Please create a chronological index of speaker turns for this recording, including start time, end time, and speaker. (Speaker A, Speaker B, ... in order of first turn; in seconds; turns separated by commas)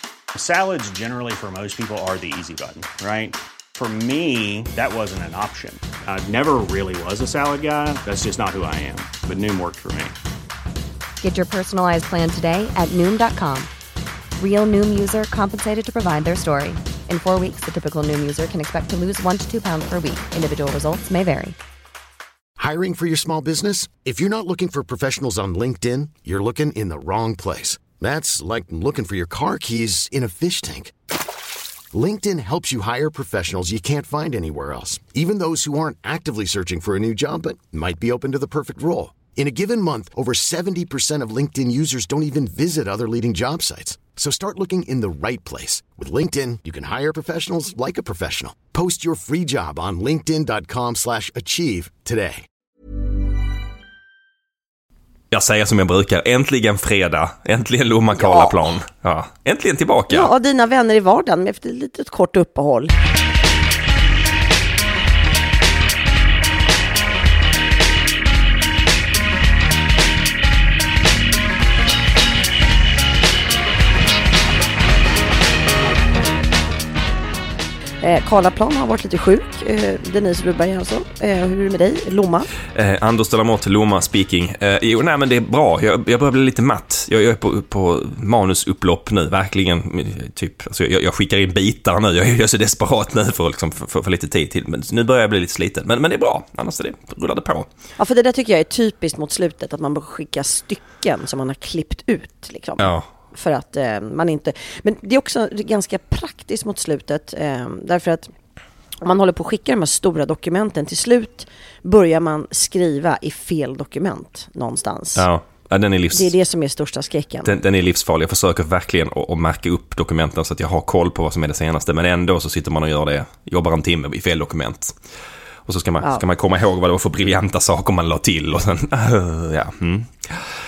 Speaker A: 0.3-10.1, Speaker B: 11.2-13.7, Speaker B: 14.4-21.6, Speaker C: 22.6-30.9, Speaker C: 31.9-52.5, Speaker D: 55.3-60.3, Speaker E: 58.1-58.7, Speaker E: 60.1-62.9, Speaker E: 78.0-82.5, Speaker D: 82.7-97.7, Speaker E: 98.0-108.3, Speaker D: 102.8-103.0, Speaker E: 109.0-115.2, Speaker D: 115.2-116.3, Speaker E: 116.1-117.5, Speaker D: 117.4-125.0, Speaker D: 125.7-130.5